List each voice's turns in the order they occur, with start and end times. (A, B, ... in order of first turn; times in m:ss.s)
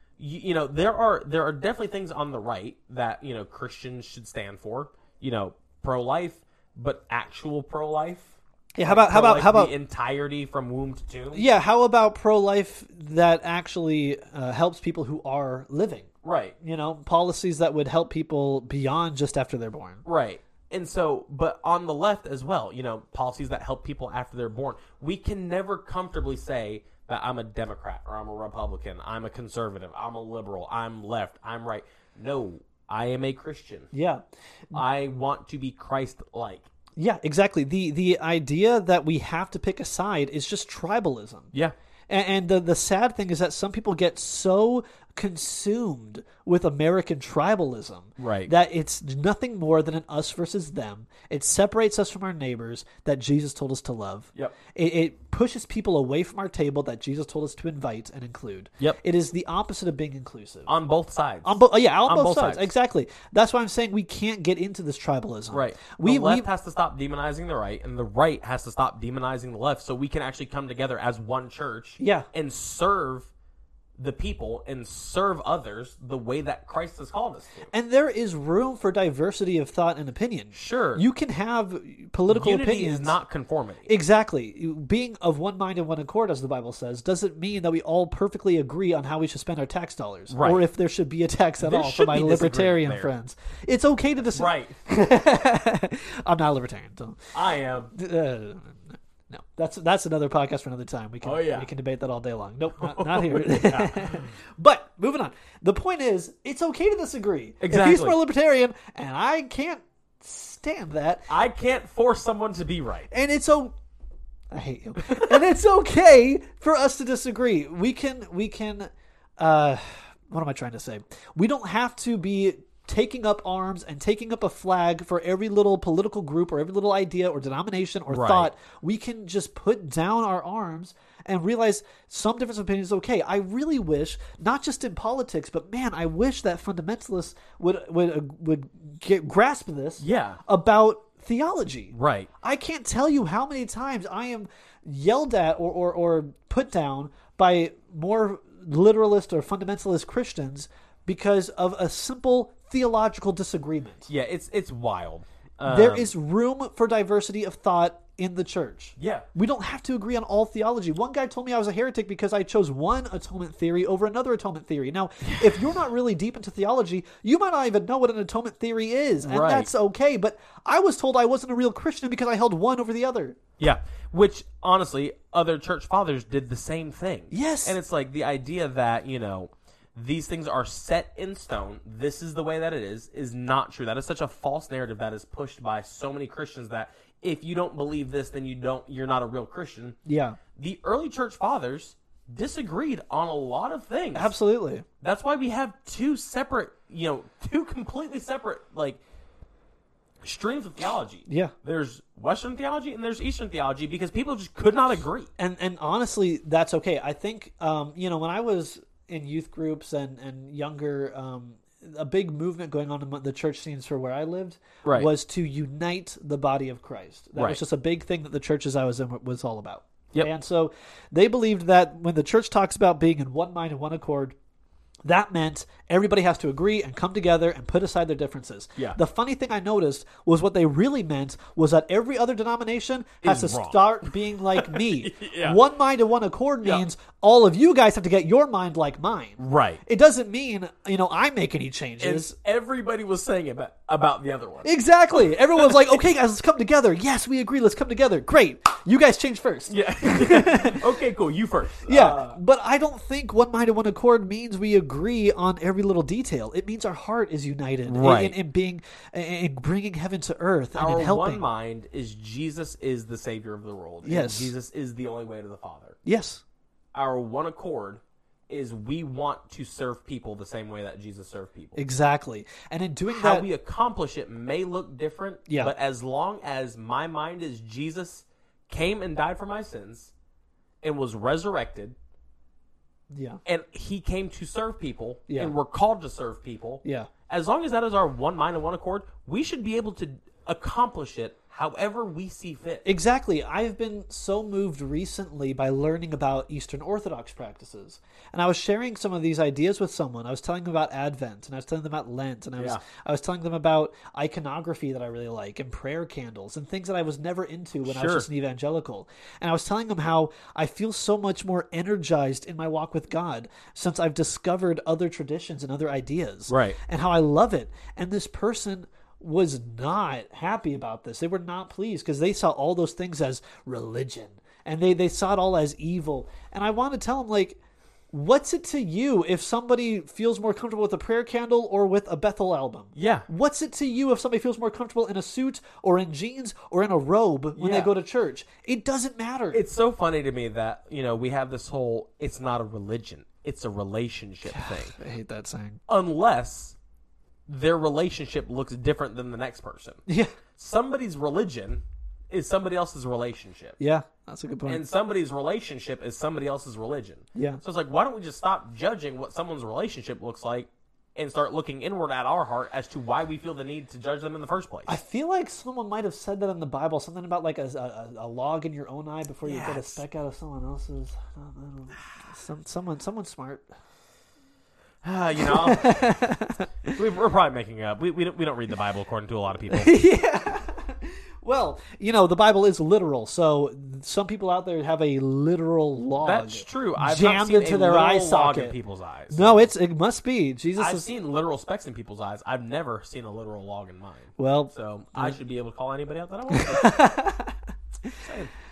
0:00.2-0:11.4 A
0:08.8-0:09.7 B
0:11.3-0:16.1 B
0:16.2-0:16.5 A
0:16.6-0:20.0 B
0:20.0-0:33.9 A
0:33.9-0:34.8 B
0:34.7-0:36.7 A
0:37.0-0:41.5 B
0:42.1-1:00.7 B
0:48.2-0:48.5 A
1:00.7-1:02.7 A
1:01.4-1:06.5 B
1:05.5-1:13.3 A
1:12.0-1:12.3 B
1:14.0-1:17.7 A
1:17.7-1:23.2 B
1:20.5-1:21.0 A
1:22.3-1:23.9 A
1:23.8-1:37.3 B
1:30.3-1:30.6 A
1:31.6-1:33.1 A
1:34.3-1:34.7 A
1:37.3-1:37.9 A
1:37.9-1:51.3 B
1:41.2-1:41.7 A
1:42.8-1:44.3 A
1:47.6-1:48.2 A
1:51.3-1:53.1 A
1:53.1-1:53.7 B
1:54.5-2:34.1 B
1:55.1-1:55.4 A
2:08.1-2:08.5 A
2:20.0-2:20.4 A
2:21.9-2:22.3 A
2:34.1-2:36.1 A
2:35.6-2:53.4 B
2:39.0-2:39.2 A
2:45.2-2:45.6 A
2:49.2-2:49.7 A
2:53.6-3:10.0 A
2:57.3-2:57.8 B
3:10.0-3:10.4 B
3:10.6-3:14.3 A
3:14.1-3:14.8 B
3:15.0-3:19.0 A
3:20.2-3:25.3 A
3:21.3-3:21.5 B
3:25.4-3:44.3 B
3:34.8-3:35.1 A
3:45.0-4:02.3 B
3:53.2-3:55.6 A
3:59.4-3:59.8 A
4:02.0-4:06.0 A
4:04.6-4:10.8 B
4:09.7-4:12.4 A
4:11.9-4:21.4 B
4:17.8-4:18.4 A
4:20.7-4:26.0 A
4:24.0-4:24.5 B
4:26.0-4:26.4 B
4:26.9-4:31.8 A
4:31.8-4:33.5 B
4:33.1-4:40.1 A
4:35.5-4:35.7 B
4:40.8-4:42.0 A
4:43.1-4:43.4 B
4:43.4-4:52.8 A
4:45.3-4:45.5 B
4:46.8-4:47.1 B
4:52.8-5:27.6 B
5:07.8-5:08.3 A
5:16.5-5:16.8 A
5:28.1-5:39.6 B
5:32.9-5:33.2 A
5:37.5-5:37.9 A
5:39.5-5:45.0 A
5:44.5-5:45.8 B
5:45.9-5:46.8 A
5:47.5-5:50.0 A
5:50.1-5:50.3 B
5:50.6-5:53.8 A
5:53.8-5:54.8 B
5:54.6-6:04.9 A
5:57.3-5:57.6 B
6:04.9-6:13.6 B
6:09.4-6:10.0 A
6:15.0-6:16.2 A
6:15.4-6:17.0 B
6:16.9-6:19.9 A
6:19.7-6:28.7 B
6:26.2-6:29.7 A
6:29.3-6:31.1 B
6:30.8-6:37.0 A
6:34.4-6:35.4 B
6:36.5-6:38.2 B
6:38.2-6:38.5 A